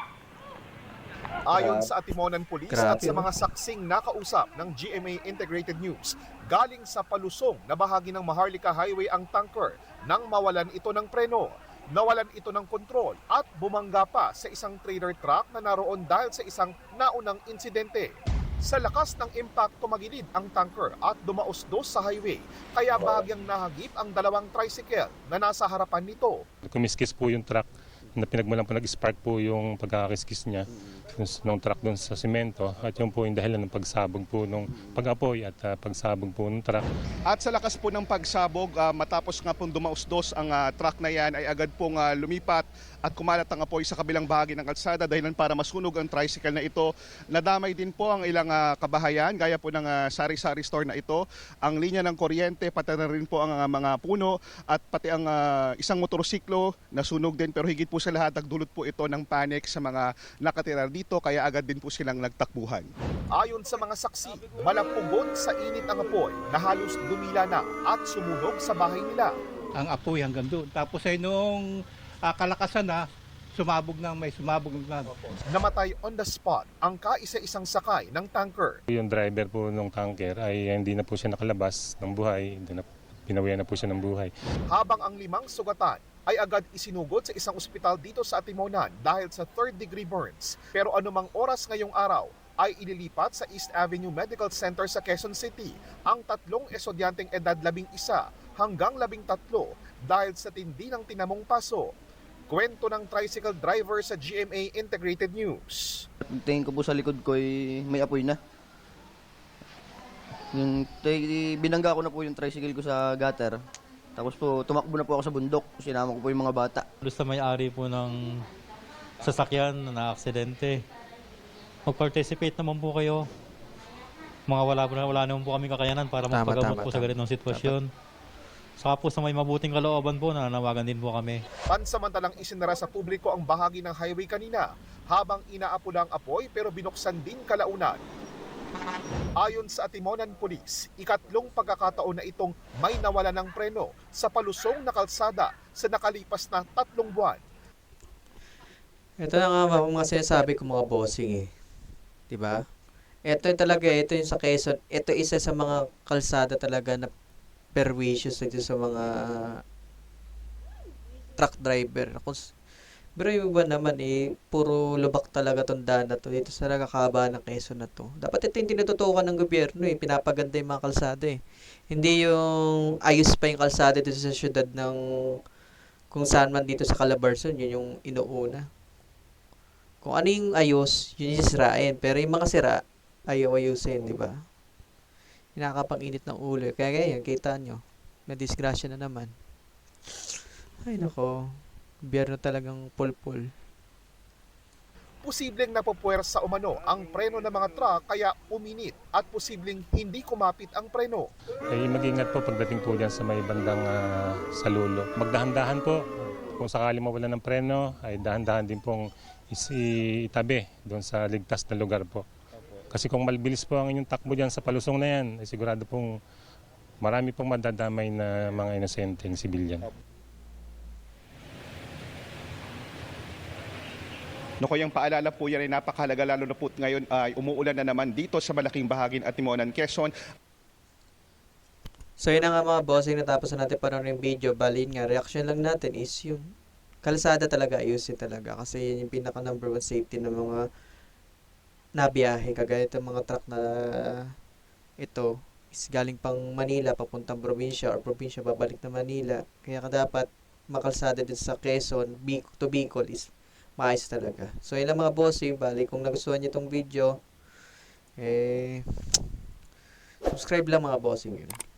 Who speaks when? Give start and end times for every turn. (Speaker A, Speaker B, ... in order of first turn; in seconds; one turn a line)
Speaker A: 1.5-26.4
Speaker B: 1.5-1.9
Speaker B: 2.7-3.3
Speaker C: 26.6-36.8
Speaker D: 37.3-62.9
Speaker A: 63.3-69.3
Speaker E: 69.8-71.6
Speaker E: 72.3-73.0
Speaker E: 73.6-75.1
Speaker A: 75.5-78.8
Speaker C: 78.9-84.3
Speaker A: 84.7-101.9
Speaker A: 102.5-106.0
Speaker F: 106.2-108.4
Speaker F: 110.5-113.6
Speaker F: 114.2-116.8
Speaker G: 117.0-118.5
Speaker G: 119.2-120.8
Speaker G: 121.8-123.3
Speaker G: 124.5-127.9
Speaker B: 126.3-127.8
Speaker G: 128.8-131.4
Speaker A: 131.7-138.1
Speaker A: 139.4-147.4
Speaker B: 149.2-151.5
Speaker B: 152.3-152.6
Speaker B: 153.2-157.1
Speaker B: 157.7-159.6
Speaker B: 161.4-162.4
Speaker B: 163.2-171.4
Speaker B: 171.9-175.0
Speaker B: 176.1-178.7
Speaker B: 180.0-184.3
Speaker B: 185.6-189.3
Speaker B: 190.8-191.4
Speaker B: 192.1-193.5
Speaker A: 195.2-201.3
Speaker C: 201.7-206.0
Speaker C: 206.6-212.2
Speaker C: 212.9-216.1
Speaker C: 217.0-219.8
Speaker D: 224.6-230.1
Speaker B: 232.2-236.5
Speaker B: 237.0-240.6
Speaker B: 242.0-244.2
Speaker B: 245.0-257.1
Speaker B: 258.2-259.2
Speaker B: 260.2-261.6